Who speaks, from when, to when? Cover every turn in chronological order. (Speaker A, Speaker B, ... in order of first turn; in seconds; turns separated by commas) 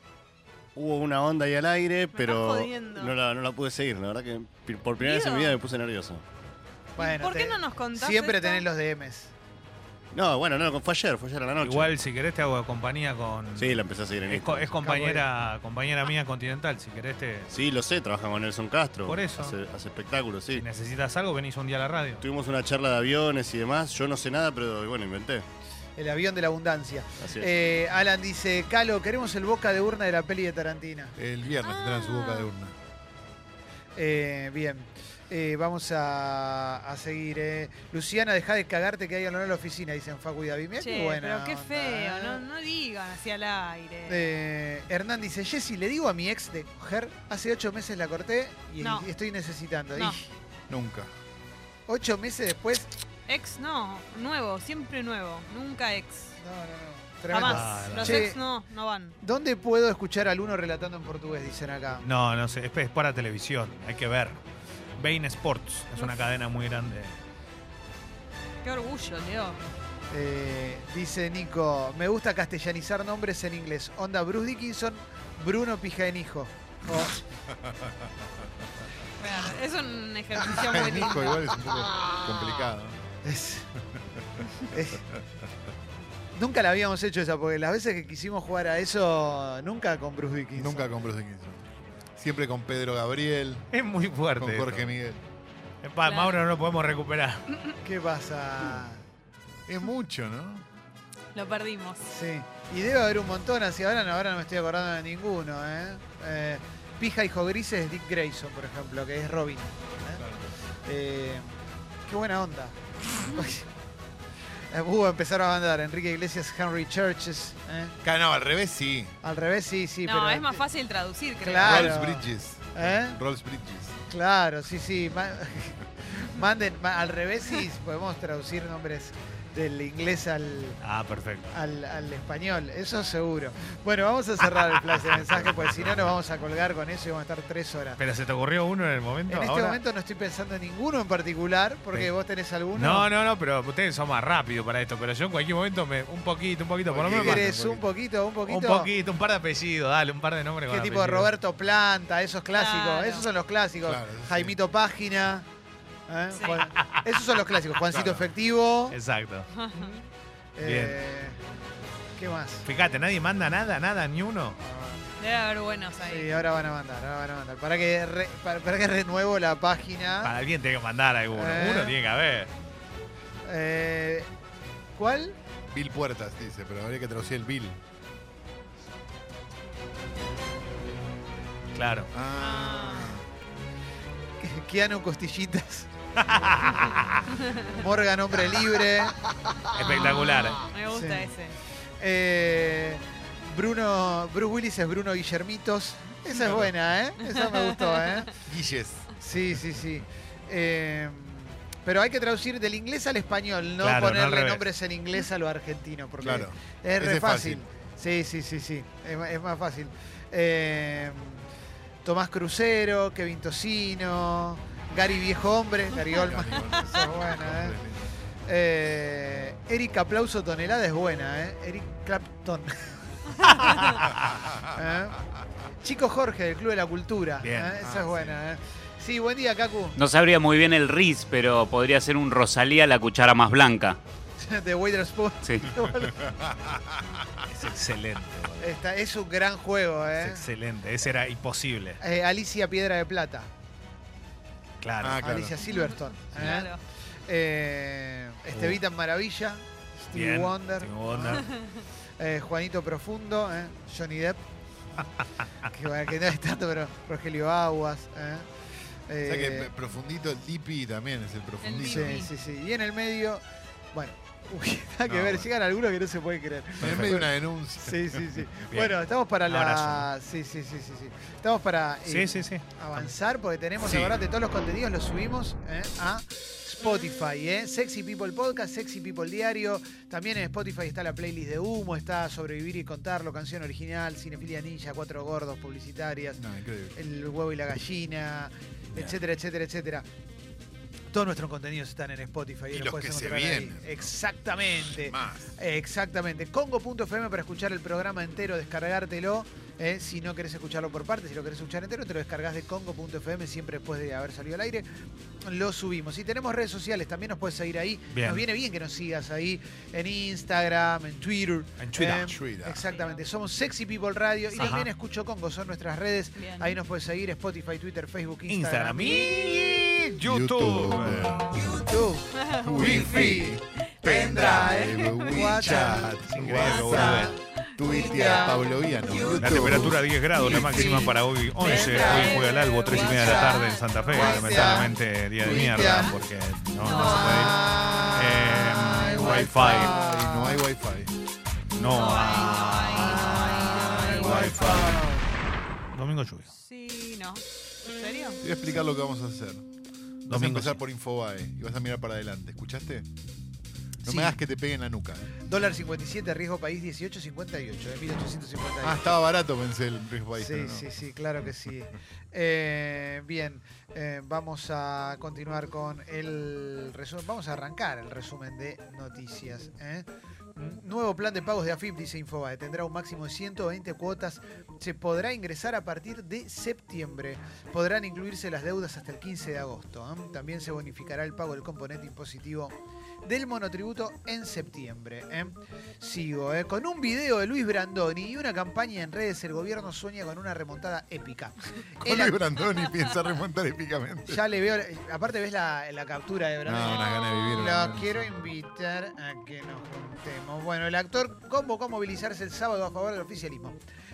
Speaker A: 0.8-6.2, Speaker B: 2.1-3.1, Speaker B: 5.0-5.6, Speaker B: 7.0-8.7, Speaker C: 7.0-9.3, Speaker A: 10.1-12.0, Speaker D: 11.6-17.5, Speaker A: 13.6-14.8, Speaker C: 14.8-15.2, Speaker A: 17.5-20.7, Speaker D: 19.1-19.6, Speaker D: 20.6-22.2, Speaker A: 22.2-25.4, Speaker C: 26.0-31.1, Speaker A: 27.2-27.5, Speaker E: 31.2-32.8, Speaker B: 31.6-32.5, Speaker C: 34.0-42.4, Speaker B: 40.8-44.3, Speaker C: 44.1-50.3, Speaker B: 48.8-49.1, Speaker E: 50.7-51.1, Speaker C: 51.9-52.9, Speaker B: 53.3-56.3, Speaker C: 56.4-58.4, Speaker B: 57.3-59.2, Speaker D: 57.4-58.3, Speaker C: 59.2-62.0, Speaker D: 62.0-64.4, Speaker D: 65.0-67.2, Speaker B: 68.6-69.6, Speaker C: 70.1-77.2, Speaker E: 77.6-78.1, Speaker B: 79.2-81.5, Speaker E: 80.5-83.0, Speaker C: 83.2-83.7, Speaker C: 84.7-85.0, Speaker C: 86.3-90.9, Speaker E: 90.6-93.7, Speaker D: 93.7-94.9, Speaker E: 94.4-95.2, Speaker D: 95.8-97.4, Speaker B: 96.0-96.4, Speaker C: 97.8-99.0, Speaker E: 99.7-100.7, Speaker B: 101.3-102.1, Speaker C: 102.1-110.2, Speaker E: 110.2-110.5, Speaker C: 110.8-111.5, Speaker C: 112.1-113.7, Speaker C: 114.7-118.0, Speaker E: 118.0-119.2, Speaker C: 119.2-120.6, Speaker B: 120.0-121.9, Speaker C: 121.4-123.2, Speaker E: 121.6-124.0, Speaker C: 124.1-130.8, Speaker D: 130.8-131.5, Speaker C: 131.5-138.0, Speaker D: 135.1-135.5, Speaker E: 135.6-135.9, Speaker D: 138.0-139.8, Speaker C: 139.3-143.1, Speaker D: 142.7-147.8, Speaker E: 146.9-147.8, Speaker C: 147.1-148.9, Speaker D: 148.5-151.3, Speaker C: 150.7-155.5, Speaker B: 152.5-153.3, Speaker E: 153.8-154.6, Speaker C: 156.1-159.0, Speaker B: 156.3-156.6, Speaker D: 156.8-157.1, Speaker E: 157.9-158.3, Speaker D: 158.9-159.5, Speaker B: 159.5-159.9, Speaker C: 159.7-160.0, Speaker C: 160.6-161.4, Speaker D: 160.6-161.0, Speaker C: 162.2-162.7, Speaker D: 162.7-164.6, Speaker C: 164.6-165.1, Speaker B: 165.2-166.3, Speaker C: 166.0-170.3, Speaker D: 170.2-172.5, Speaker C: 171.3-172.0, Speaker C: 173.4-174.3, Speaker C: 175.0-175.4, Speaker E: 175.7-177.8, Speaker D: 181.8-182.1, Speaker E: 182.1-183.2, Speaker B: 182.4-183.1, Speaker C: 184.4-185.9, Speaker D: 186.2-187.3, Speaker B: 187.4-187.7, Speaker C: 187.7-189.2, Speaker D: 189.7-190.7, Speaker B: 189.9-191.6, Speaker C: 190.9-191.3, Speaker C: 192.0-198.3, Speaker E: 196.4-196.7, Speaker B: 197.2-198.2, Speaker E: 198.5-199.8, Speaker C: 199.2-211.4, Speaker D: 203.8-204.7, Speaker E: 206.2-207.6, Speaker C: 212.0-217.8, Speaker E: 216.1-218.1, Speaker C: 218.5-225.2, Speaker C: 225.8-230.0, Speaker D: 227.4-227.8, Speaker E: 227.8-228.4, Speaker F: 230.0-234.0, Speaker C: 234.4-236.3, Speaker E: 236.1-237.3, Speaker D: 237.5-238.8, Speaker C: 238.6-240.5, Speaker D: 240.2-242.0, Speaker C: 242.0-243.5, Speaker D: 244.8-245.3, Speaker E: 245.0-245.6, Speaker C: 245.2-246.7, Speaker B: 245.6-246.8, Speaker C: 247.3-251.5, Speaker D: 248.5-248.8, Speaker D: 250.1-251.5, Speaker B: 251.4-251.8, Speaker C: 252.2-254.4, Speaker C: 255.7-258.5, Speaker C: 259.1-259.7, Speaker E: 259.2-262.2, Speaker B: 261.6-262.3, Speaker C: 261.9-286.4, Speaker E: 265.1-265.5, Speaker E: 266.8-268.5, Speaker D: 268.7-270.1, Speaker D: 272.1-272.6, Speaker E: 273.8-274.2, Speaker E: 286.4-287.0, Speaker C: 286.9-290.1, Speaker C: 291.1-304.9, Speaker E: 292.7-294.1, Speaker E: 294.7-295.5, Speaker C: 305.4-319.8, Speaker D: 308.1-308.4, Speaker D: 311.8-312.3, Speaker E: 312.2-312.8, Speaker B: 312.9-313.2, Speaker D: 314.6-314.9, Speaker B: 316.4-316.8, Speaker D: 318.5-321.4, Speaker E: 320.2-321.8, Speaker C: 321.5-327.4, Speaker B: 322.4-323.3, Speaker E: 322.5-331.0, Speaker B: 324.1-325.6, Speaker D: 326.1-327.3, Speaker B: 327.6-328.6, Speaker C: 327.9-328.6, Speaker D: 329.4-337.6, Speaker C: 330.5-336.1, Speaker B: 331.6-334.9, Speaker B: 335.5-336.1, Speaker B: 336.9-337.6, Speaker C: 336.9-340.6, Speaker D: 338.1-339.9, Speaker E: 339.4-341.1, Speaker D: 341.8-345.0, Speaker B: 341.8-344.9, Speaker C: 342.9-345.2, Speaker D: 345.9-346.5, Speaker B: 346.5-348.4, Speaker E: 348.4-349.7, Speaker D: 350.3-350.8, Speaker E: 350.3-353.1, Speaker E: 354.0-355.3, Speaker C: 354.1-354.4, Speaker C: 355.4-359.2, Speaker E: 358.8-360.9, Speaker C: 360.4-392.4, Speaker E: 392.0-394.4, Speaker C: 394.3-403.8, Speaker E: 396.7-398.5, Speaker B: 396.8-397.6